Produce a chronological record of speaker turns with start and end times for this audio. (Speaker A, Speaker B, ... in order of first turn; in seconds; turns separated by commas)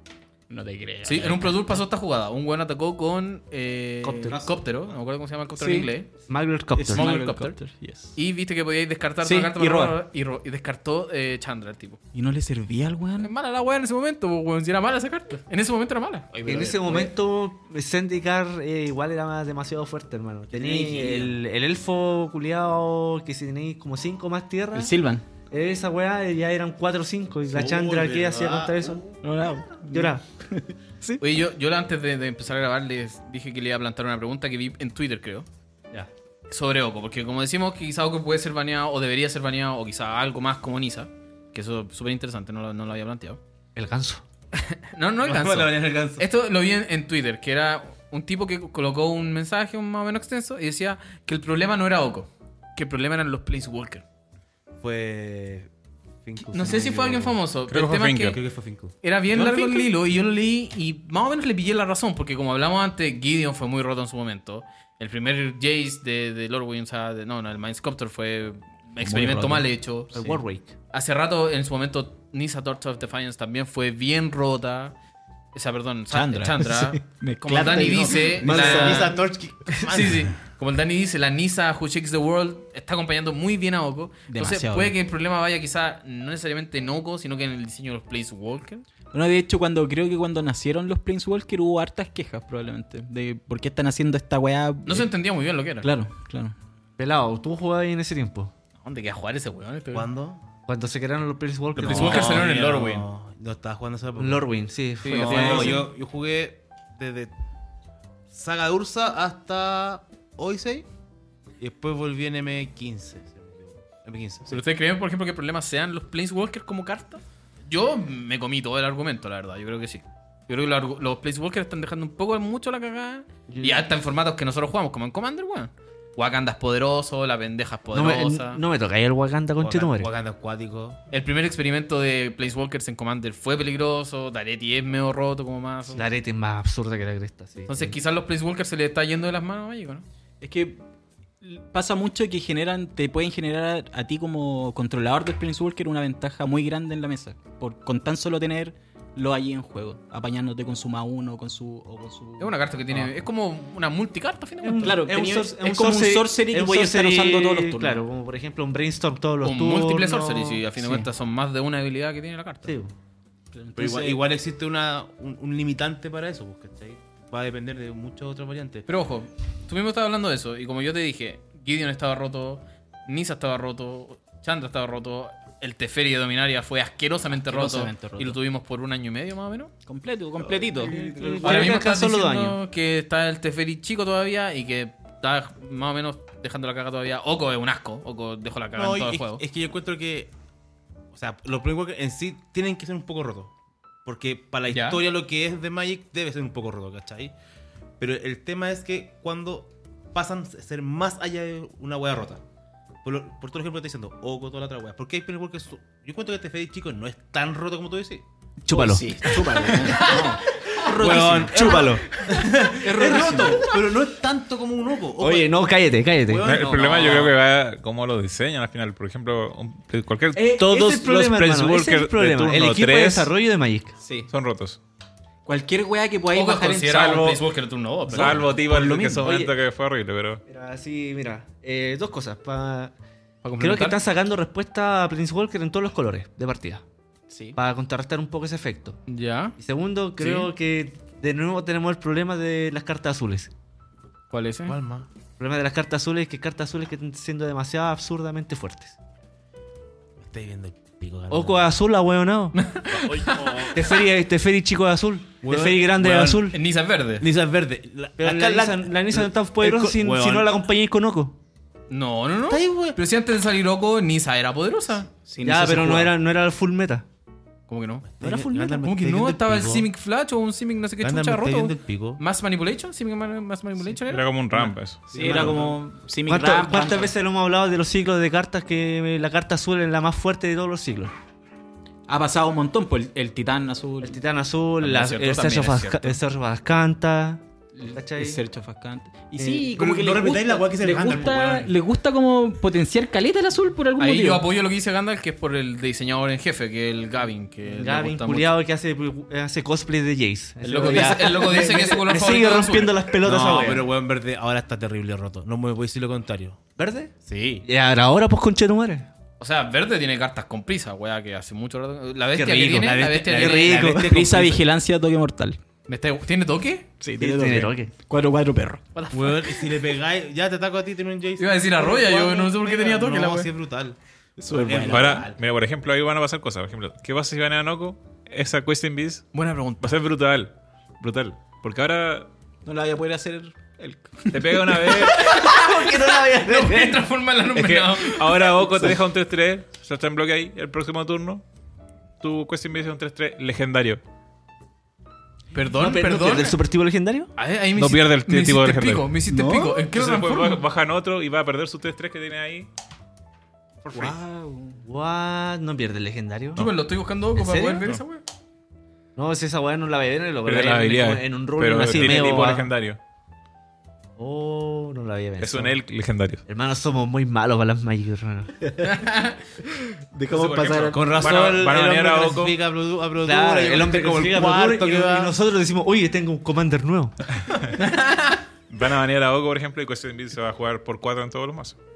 Speaker A: 0.5-1.8, Speaker B: 1.0-6.1, Speaker C: 4.0-4.6, Speaker A: 5.6-5.9, Speaker C: 6.3-7.2, Speaker A: 6.8-8.2, Speaker B: 6.9-7.6, Speaker B: 8.2-12.0, Speaker A: 9.2-10.0, Speaker A: 12.1-13.3, Speaker B: 13.2-16.3, Speaker A: 16.3-17.1, Speaker C: 16.4-24.9, Speaker D: 20.5-21.4, Speaker A: 24.7-25.2, Speaker C: 25.5-29.0, Speaker D: 27.5-29.2, Speaker A: 29.2-31.2, Speaker C: 29.9-30.2, Speaker B: 31.2-35.5, Speaker B: 36.5-43.4, Speaker C: 43.8-44.2, Speaker B: 44.5-54.0, Speaker D: 45.2-46.2, Speaker D: 54.8-55.7, Speaker D: 56.2-57.4, Speaker B: 56.5-58.4, Speaker E: 57.7-58.4, Speaker D: 58.3-59.9, Speaker B: 59.0-70.4, Speaker A: 69.0-69.7, Speaker C: 70.1-70.7, Speaker B: 70.9-75.0, Speaker B: 75.5-79.2, Speaker A: 76.1-79.1, Speaker D: 78.4-80.3, Speaker C: 78.4-79.1, Speaker B: 79.8-88.8, Speaker A: 84.3-85.0, Speaker A: 89.1-95.1, Speaker B: 94.9-95.9, Speaker A: 95.8-96.5, Speaker C: 97.0-98.5, Speaker B: 98.8-100.1, Speaker D: 99.9-100.5, Speaker C: 100.7-102.5, Speaker D: 101.8-104.5, Speaker B: 101.8-103.1, Speaker C: 104.2-105.8, Speaker B: 105.0-105.8, Speaker D: 105.1-107.3, Speaker A: 105.2-105.8, Speaker D: 108.3-110.9, Speaker D: 111.6-114.6, Speaker B: 114.5-128.6, Speaker C: 123.5-123.9, Speaker C: 127.9-130.1, Speaker D: 129.6-131.0, Speaker B: 131.1-136.1, Speaker C: 135.9-138.0, Speaker B: 137.7-140.1, Speaker A: 140.4-140.8, Speaker A: 141.4-153.1, Speaker B: 152.4-155.0, Speaker C: 154.6-161.1, Speaker A: 154.8-158.1, Speaker B: 159.4-162.8, Speaker C: 162.7-162.9, Speaker A: 163.5-164.2, Speaker D: 163.8-168.9, Speaker B: 168.9-179.7, Speaker A: 177.3-178.4, Speaker A: 179.9-181.8, Speaker C: 180.8-182.6, Speaker B: 181.4-189.4, Speaker D: 188.8-190.3, Speaker D: 191.1-193.5, Speaker D: 194.1-197.3, Speaker B: 194.7-195.0, Speaker D: 198.0-202.4, Speaker D: 203.0-208.2, Speaker C: 208.6-209.2, Speaker A: 208.7-211.9, Speaker B: 209.7-210.2, Speaker D: 210.8-215.5, Speaker C: 210.8-212.2, Speaker A: 212.8-213.7, Speaker C: 213.0-213.4, Speaker C: 215.2-217.3, Speaker D: 216.2-217.3, Speaker E: 216.4-223.3, Speaker C: 220.3-224.0, Speaker A: 224.0-224.3, Speaker E: 224.3-224.8, Speaker A: 225.4-227.4, Speaker B: 226.3-228.4, Speaker E: 228.1-230.4, Speaker C: 228.2-229.6, Speaker C: 230.5-232.9, Speaker B: 233.4-234.0, Speaker C: 233.6-236.8, Speaker A: 237.3-237.6, Speaker C: 237.6-239.0, Speaker B: 239.1-239.6, Speaker C: 239.6-243.5, Speaker B: 240.2-240.5, Speaker B: 244.3-244.8, Speaker D: 244.7-245.1, Speaker C: 245.4-249.0, Speaker D: 250.2-251.7, Speaker C: 251.3-252.6, Speaker B: 252.5-253.9, Speaker D: 253.1-253.7, Speaker C: 253.6-256.6, Speaker D: 255.4-256.4, Speaker B: 256.5-257.3, Speaker D: 257.2-260.5, Speaker C: 258.2-261.4, Speaker B: 261.9-265.1, Speaker D: 262.5-263.0, Speaker A: 265.3-266.1, Speaker C: 265.4-267.1, Speaker B: 267.7-268.1, Speaker D: 268.1-269.9, Speaker C: 268.2-268.9, Speaker B: 268.8-274.2, Speaker D: 271.0-272.2, Speaker E: 273.9-275.4, Speaker D: 275.1-275.8, Speaker A: 275.1-277.1, Speaker C: 275.1-275.6, Speaker C: 276.3-281.1, Speaker A: 282.1-284.2, Speaker C: 284.0-288.4, Speaker B: 284.8-286.2, Speaker A: 287.8-294.4, Speaker C: 289.4-289.7, Speaker D: 289.7-291.7, Speaker B: 294.0-298.5, Speaker C: 297.7-303.9, Speaker B: 300.6-303.8, Speaker A: 300.8-301.1, Speaker D: 303.2-306.6, Speaker C: 306.8-309.1, Speaker B: 307.3-307.6, Speaker B: 309.4-314.0, Speaker C: 312.4-314.2, Speaker D: 312.9-314.6, Speaker A: 313.8-315.6, Speaker B: 315.9-316.9, Speaker A: 317.0-318.8, Speaker C: 317.2-317.9, Speaker B: 318.9-319.7, Speaker D: 319.1-325.4, Speaker B: 321.4-323.5, Speaker A: 324.4-325.3, Speaker E: 324.8-332.3, Speaker B: 329.3-329.9, Speaker A: 332.6-335.1, Speaker E: 334.3-335.3, Speaker C: 335.1-337.1, Speaker B: 335.2-338.5, Speaker E: 337.6-341.4, Speaker C: 338.6-338.9, Speaker E: 342.2-344.0, Speaker B: 345.5-346.6, Speaker C: 345.8-347.3, Speaker B: 347.4-350.6, Speaker E: 347.8-349.1, Speaker A: 349.3-349.9, Speaker E: 349.9-352.7, Speaker A: 353.9-354.8, Speaker C: 354.8-356.7, Speaker B: 356.6-358.2, Speaker C: 357.4-357.9, Speaker C: 359.2-362.7, Speaker E: 360.4-363.0, Speaker C: 364.2-365.8, Speaker E: 365.4-366.4, Speaker C: 366.5-368.5, Speaker A: 368.6-369.1, Speaker B: 368.8-369.4, Speaker A: 369.6-371.1, Speaker E: 370.3-372.6, Speaker D: 370.9-375.4, Speaker C: 373.2-377.2, Speaker B: 377.8-378.4, Speaker E: 378.7-381.8